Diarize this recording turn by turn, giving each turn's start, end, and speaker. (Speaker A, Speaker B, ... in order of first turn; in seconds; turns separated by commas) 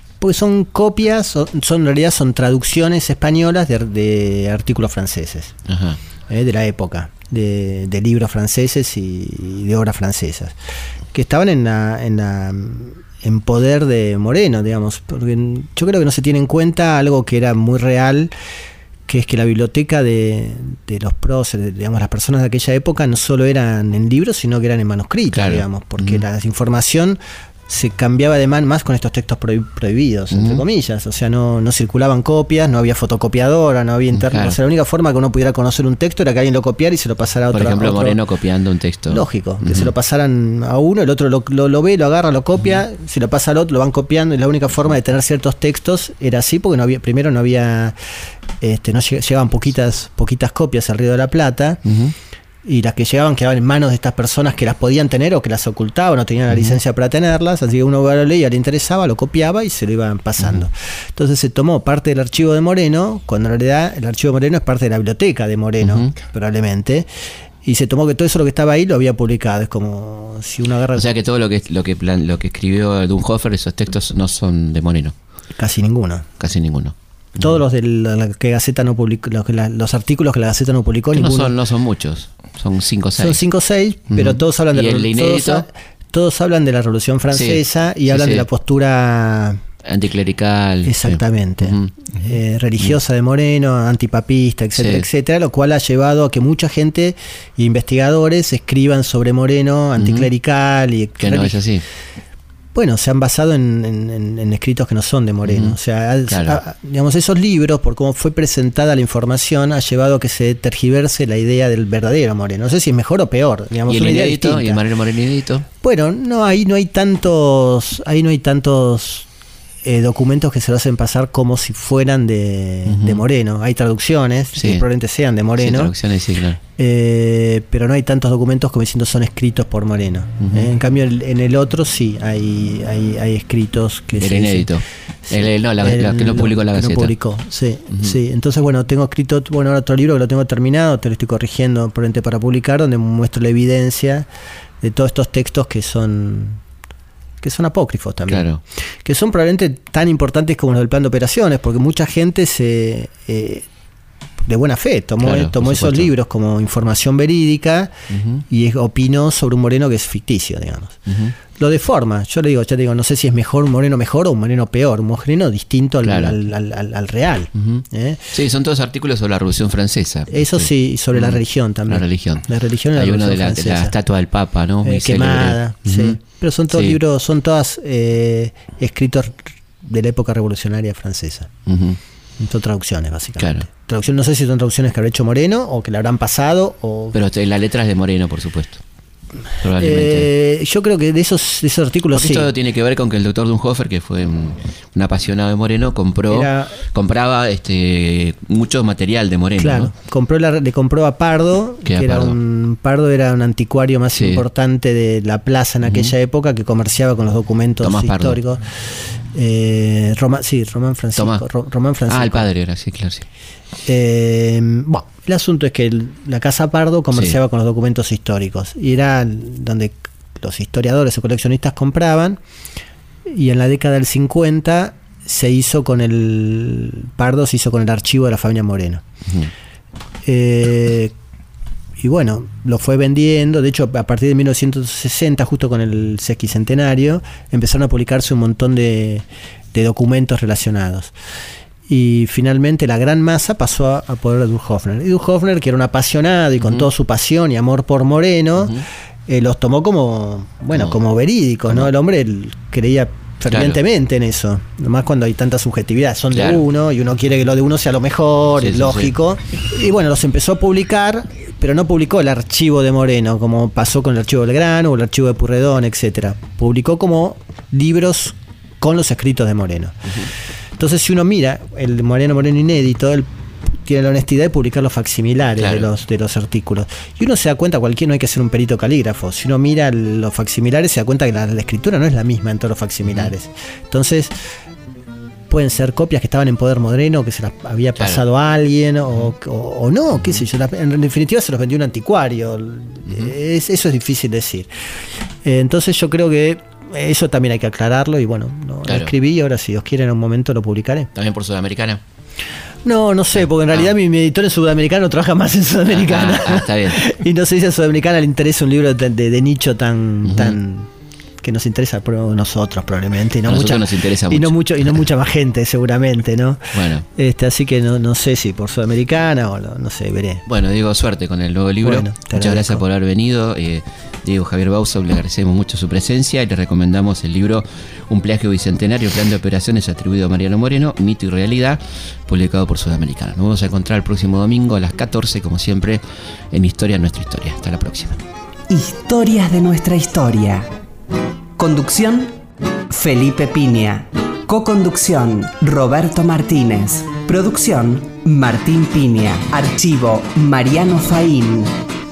Speaker A: 0.2-5.5, Speaker B: 5.7-6.0, Speaker A: 6.3-10.6, Speaker A: 11.1-18.3, Speaker A: 19.1-38.2, Speaker B: 25.3-26.2, Speaker B: 30.3-30.6, Speaker B: 34.1-34.5, Speaker B: 37.5-39.9, Speaker A: 39.1-48.0, Speaker A: 48.6-51.8, Speaker B: 51.8-52.1, Speaker A: 52.6-67.1, Speaker B: 56.5-56.8, Speaker B: 65.8-66.1, Speaker A: 67.6-71.1, Speaker B: 70.9-75.1, Speaker A: 75.5-76.3, Speaker B: 76.4-77.6, Speaker A: 77.4-81.5, Speaker B: 81.1-83.4, Speaker A: 83.2-89.6, Speaker B: 84.1-85.7, Speaker B: 87.3-88.5, Speaker B: 89.8-91.9, Speaker A: 90.8-101.6, Speaker B: 94.8-95.1, Speaker B: 100.0-100.3, Speaker B: 101.2-101.8, Speaker A: 102.7-114.8, Speaker B: 105.4-106.6, Speaker B: 113.9-115.7, Speaker A: 115.8-119.3, Speaker A: 119.8-125.9, Speaker B: 122.8-123.2, Speaker B: 124.5-124.8, Speaker B: 125.6-126.6, Speaker A: 126.8-134.7, Speaker B: 130.4-130.7, Speaker B: 134.2-137.1, Speaker A: 135.2-144.3, Speaker B: 137.9-138.2, Speaker A: 144.8-146.6, Speaker A: 147.4-148.5, Speaker B: 148.3-148.6, Speaker A: 149.0-153.7, Speaker A: 154.4-157.9, Speaker B: 155.2-156.1, Speaker B: 158.1-158.4, Speaker A: 158.5-168.3, Speaker B: 161.1-161.3, Speaker B: 166.0-166.4, Speaker B: 167.5-176.2, Speaker A: 170.3-173.9, Speaker A: 174.8-181.5, Speaker B: 176.7-177.0, Speaker B: 181.7-182.0, Speaker A: 182.4-187.2, Speaker B: 183.4-183.7, Speaker B: 187.1-188.8, Speaker B: 189.6-190.3, Speaker A: 189.8-192.5, Speaker B: 192.1-199.9, Speaker A: 196.3-196.8, Speaker A: 199.6-212.5, Speaker B: 201.8-202.4, Speaker B: 204.1-204.4, Speaker B: 205.8-206.1, Speaker B: 207.8-208.4, Speaker B: 211.2-211.4, Speaker B: 212.1-213.2, Speaker A: 213.8-222.4, Speaker A: 223.2-229.0, Speaker B: 229.2-229.5, Speaker A: 230.2-231.1, Speaker A: 232.0-241.1, Speaker A: 241.9-270.1, Speaker B: 246.6-246.8, Speaker B: 250.7-251.0, Speaker B: 253.5-253.8, Speaker B: 256.3-256.6, Speaker B: 258.6-259.1, Speaker A: 270.8-284.3, Speaker B: 275.6-275.9, Speaker A: 285.5-294.7, Speaker B: 288.0-288.2, Speaker B: 293.1-293.3, Speaker A: 295.4-301.1, Speaker B: 298.9-299.1, Speaker B: 301.1-302.0, Speaker A: 302.8-310.9, Speaker B: 305.9-307.1, Speaker B: 310.2-310.6, Speaker A: 311.4-320.4, Speaker B: 313.4-315.0, Speaker B: 316.7-317.0, Speaker B: 320.5-338.2, Speaker A: 321.8-322.8, Speaker C: 338.7-340.7, Speaker C: 341.6-342.3, Speaker C: 342.9-351.7